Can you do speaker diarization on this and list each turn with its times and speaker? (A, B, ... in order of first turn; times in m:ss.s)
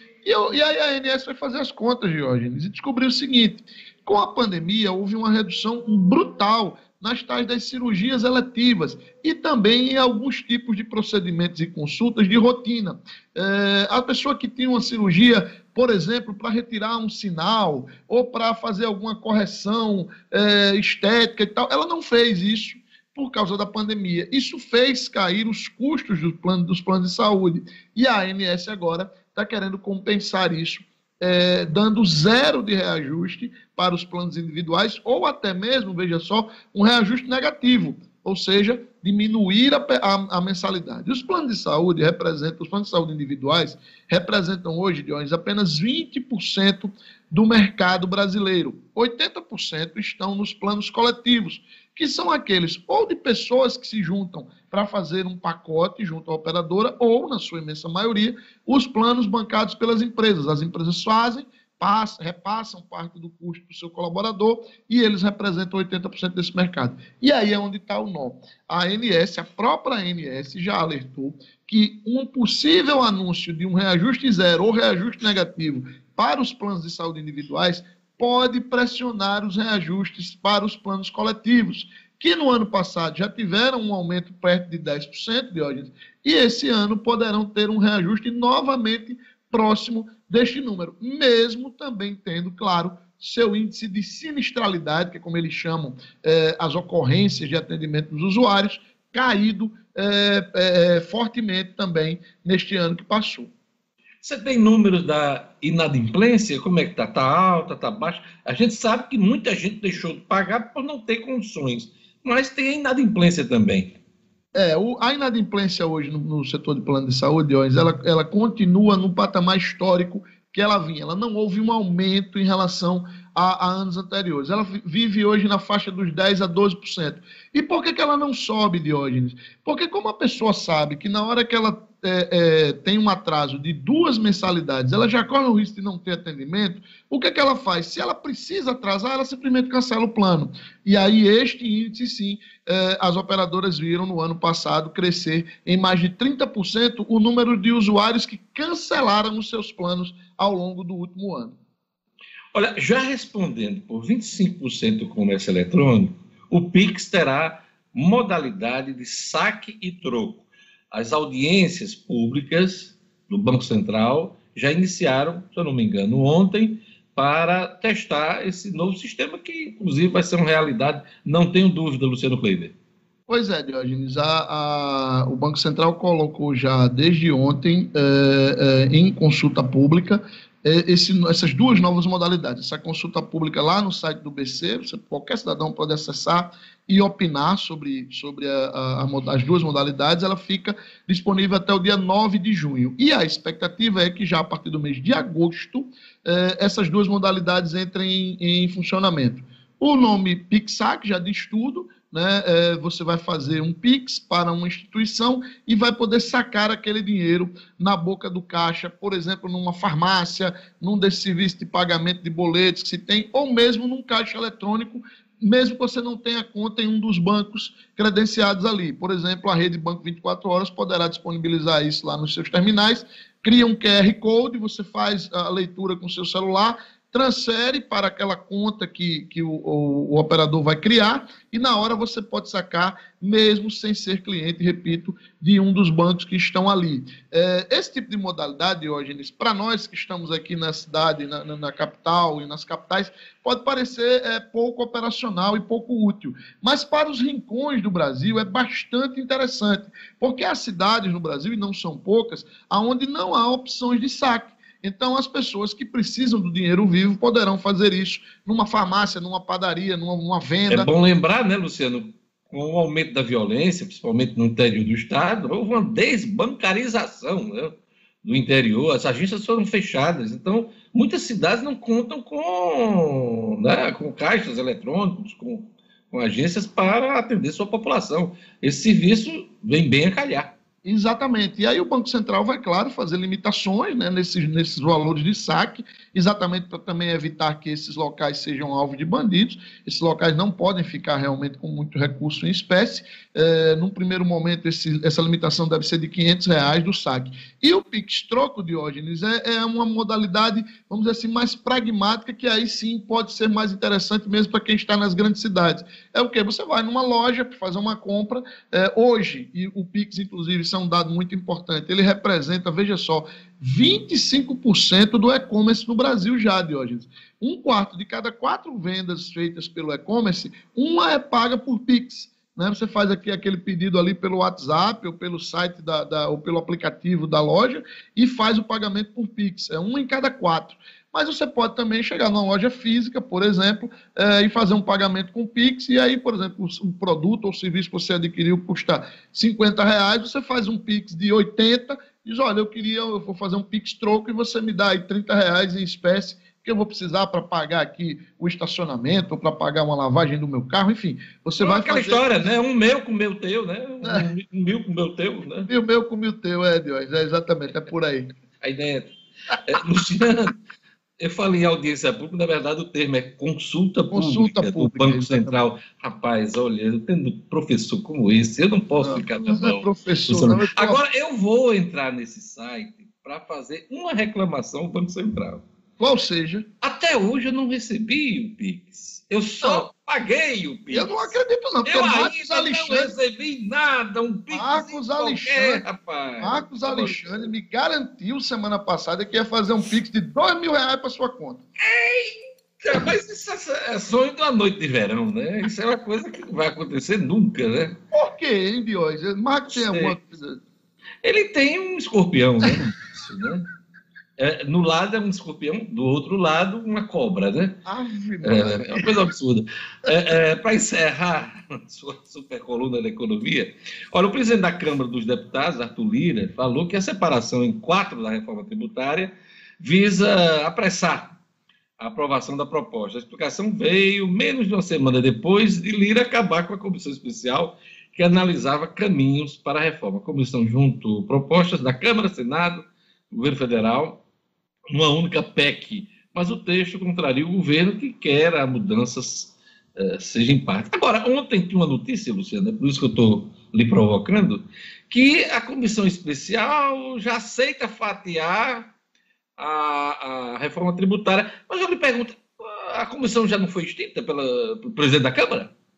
0:00.2-1:43.5 A
1:44.2-1:53.9 B
1:54.5-2:31.6 A
2:32.5-2:52.7 B
2:53.3-4:20.9 A
4:20.7-4:40.5 B
4:40.8-5:52.2 A
5:51.6-5:55.7 B
5:54.0-5:54.3 A
5:55.7-5:58.3 A
5:58.6-5:59.1 B
5:59.6-6:00.5 B
6:01.2-6:15.6 B
6:04.1-6:05.5 A
6:09.0-6:11.0 A
6:16.0-6:16.6 A
6:16.8-6:27.5 B
6:19.6-6:19.9 A
6:20.9-6:23.1 A
6:24.5-6:25.8 A
6:26.4-6:31.6 A
6:31.8-6:38.0 B
6:38.1-6:40.6 A
6:39.7-6:40.2 B
6:41.2-6:43.7 B
6:44.4-6:47.8 B
6:47.9-6:49.2 A
6:48.4-7:01.4 B
7:02.0-7:14.2 B
7:14.9-7:28.9 B
7:29.6-7:35.7 B